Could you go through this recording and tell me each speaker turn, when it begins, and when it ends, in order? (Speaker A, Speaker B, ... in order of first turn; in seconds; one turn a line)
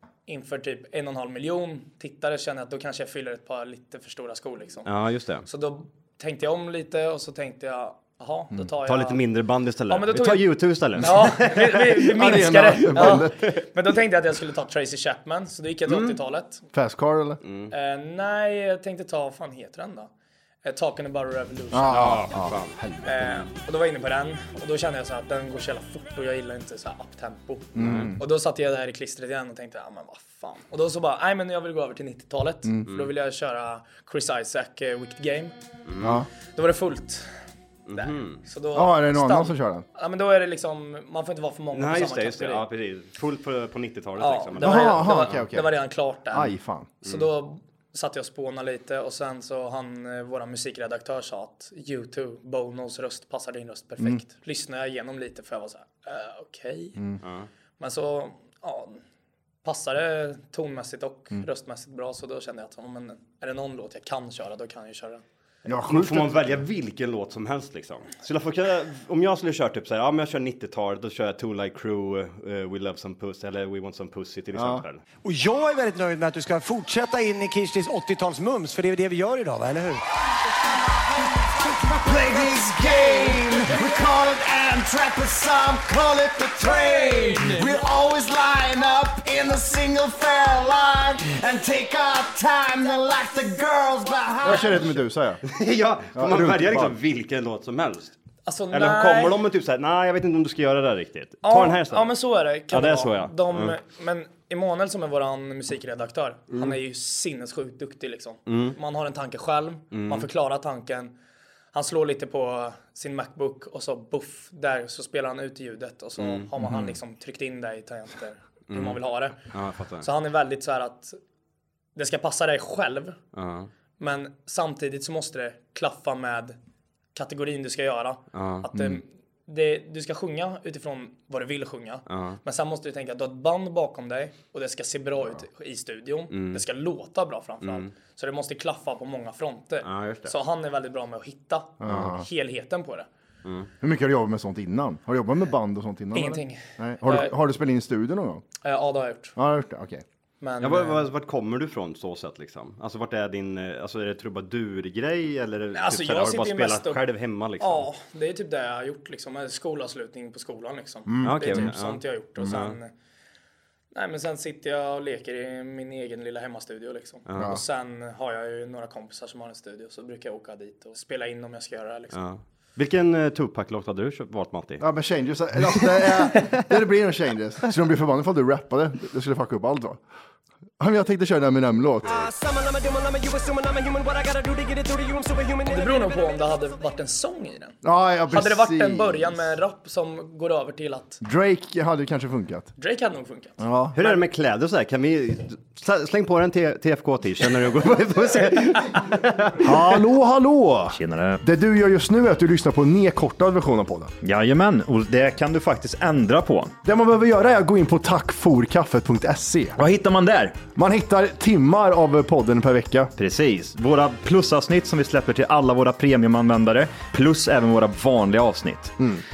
Speaker A: 0.3-4.9
Speaker B: 4.9-5.5
Speaker A: 5.5-9.2
Speaker B: 8.9-11.8
Speaker A: 9.9-16.7
Speaker C: 12.0-13.3
Speaker B: 12.9-13.6
Speaker B: 15.9-16.2
Speaker C: 16.7-17.4
Speaker B: 17.4-17.7
Speaker A: 17.7-20.1
Speaker A: 20.6-22.2
Speaker C: 21.7-23.4
Speaker B: 21.8-23.4
Speaker A: 23.0-35.5
Speaker C: 27.8-28.2
Speaker B: 27.8-28.1
Speaker B: 35.9-36.2
Speaker C: 36.0-36.3
Speaker A: 36.5-37.4
Speaker B: 37.9-38.4
Speaker A: 38.0-42.6
Speaker C: 38.7-39.9
Speaker B: 41.7-45.5
Speaker A: 44.2-57.0
Speaker C: 44.6-45.8
Speaker C: 46.3-46.9
Speaker B: 47.0-47.3
Speaker B: 57.2-57.5
Speaker A: 57.8-59.0
Speaker A: 59.6-65.2
Speaker C: 65.7-66.6
Speaker B: 65.9-75.0
Speaker C: 74.5-74.8
Speaker D: 75.2-80.0
Speaker E: 81.3-94.8
Speaker C: 94.4-95.4
Speaker B: 95.4-98.2
Speaker C: 96.2-97.0
Speaker A: 98.5-99.4
Speaker B: 98.7-102.1
Speaker A: 101.4-111.1
Speaker B: 102.7-103.8
Speaker B: 106.5-106.8
Speaker B: 108.5-108.8
Speaker B: 109.9-110.3
Speaker A: 111.7-119.5
Speaker B: 116.2-116.5
Speaker C: 116.6-117.0
Speaker B: 118.7-120.1
Speaker A: 120.0-121.2
Speaker A: 122.0-123.2
Speaker B: 123.3-123.7
Speaker A: 124.0-126.5
Speaker A: 127.2-143.1
Speaker B: 128.3-128.7
Speaker C: 128.7-129.0
Speaker B: 132.1-132.4
Speaker B: 136.3-136.6
Speaker B: 137.6-137.9
Speaker B: 139.8-140.3
Speaker C: 141.8-142.2
Speaker B: 143.4-143.7
Speaker C: 143.8-148.4
Speaker A: 146.1-147.3
Speaker A: 148.6-149.3
Speaker C: 149.4-150.1
Speaker A: 150.4-151.1
Speaker B: 150.6-157.9
Speaker A: 155.7-157.0
Speaker A: 157.6-162.9
Speaker C: 161.1-161.7
Speaker B: 161.2-162.8
Speaker A: 163.9-172.2
Speaker B: 167.3-167.6
Speaker B: 172.1-174.9
Speaker C: 174.8-180.0
Speaker B: 175.8-176.7
Speaker C: 180.8-182.3
Speaker D: 182.4-183.8
Speaker E: 183.9-184.7
Speaker D: 184.4-185.4
Speaker A: 185.6-187.8
Speaker C: 187.8-189.5
Speaker A: 188.3-191.2
Speaker C: 191.2-192.7
Speaker A: 192.8-194.2
Speaker C: 193.6-194.0
Speaker B: 194.0-199.9
Speaker C: 199.6-204.1
Speaker F: 200.9-201.4
Speaker F: 204.2-206.8
Speaker C: 206.8-209.8
Speaker F: 209.8-210.6
Speaker C: 210.8-213.1
Speaker F: 213.2-219.0